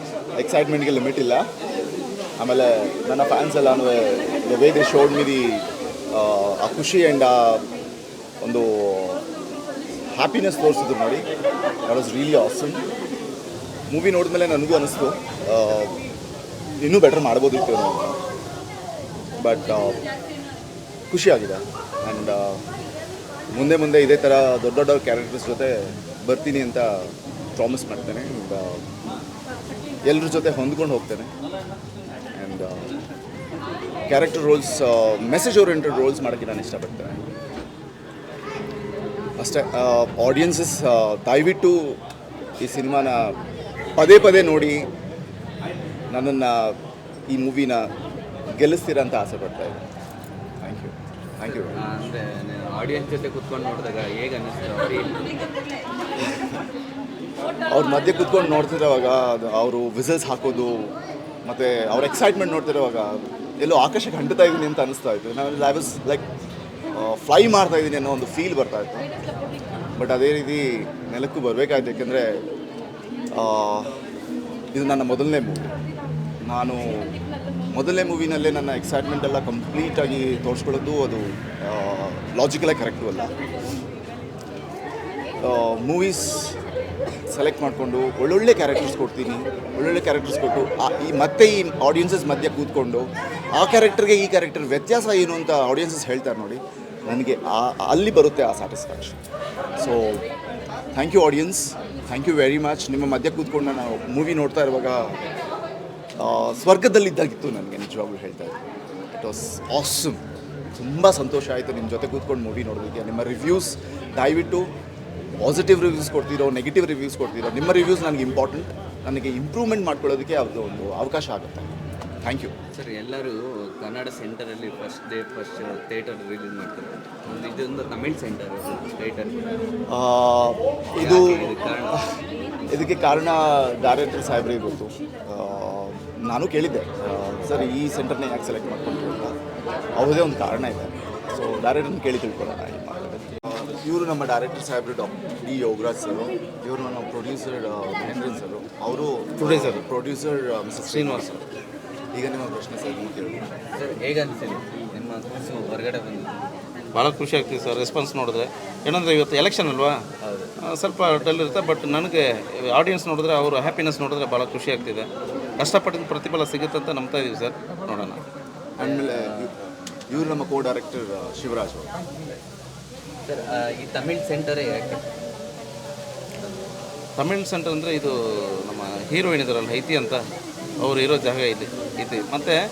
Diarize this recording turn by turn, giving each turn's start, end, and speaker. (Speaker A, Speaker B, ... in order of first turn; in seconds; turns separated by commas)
Speaker A: 0.3-1.5, Speaker A: 2.4-7.6, Speaker A: 8.4-9.2, Speaker A: 10.1-11.3, Speaker A: 11.8-12.8, Speaker A: 13.9-16.0, Speaker A: 16.8-18.2, Speaker A: 19.4-20.0, Speaker A: 21.1-22.6, Speaker A: 23.5-28.8, Speaker A: 30.0-31.3, Speaker A: 32.3-32.9, Speaker A: 34.1-37.2, Speaker A: 39.4-42.0, Speaker A: 42.6-43.3, Speaker A: 44.0-44.9, Speaker A: 46.1-46.8, Speaker A: 47.3-47.9, Speaker A: 48.6-49.8, Speaker A: 50.6-51.8, Speaker B: 51.6-55.4, Speaker A: 57.7-66.3, Speaker A: 66.9-69.1, Speaker A: 70.0-72.4, Speaker A: 73.3-73.9, Speaker A: 74.7-75.7, Speaker A: 76.5-77.2, Speaker A: 77.7-83.3, Speaker A: 85.4-86.6, Speaker A: 87.3-99.2, Speaker A: 99.8-100.2, Speaker A: 100.9-105.2, Speaker A: 106.2-108.6, Speaker A: 109.2-110.2, Speaker A: 110.8-114.7, Speaker A: 115.4-121.7, Speaker A: 122.2-122.5, Speaker B: 122.7-129.4, Speaker A: 129.9-131.6, Speaker B: 131.0-132.1, Speaker A: 132.7-139.3, Speaker A: 139.9-151.4, Speaker C: 149.4-149.8, Speaker C: 150.9-151.3, Speaker A: 152.1-153.5, Speaker B: 153.7-156.7, Speaker C: 156.9-160.0, Speaker B: 160.2-160.5, Speaker C: 160.6-168.2, Speaker A: 168.8-169.5, Speaker B: 168.8-169.5, Speaker A: 170.1-171.9, Speaker B: 173.2-175.0, Speaker C: 177.2-178.1, Speaker C: 178.6-180.2, Speaker C: 180.8-182.6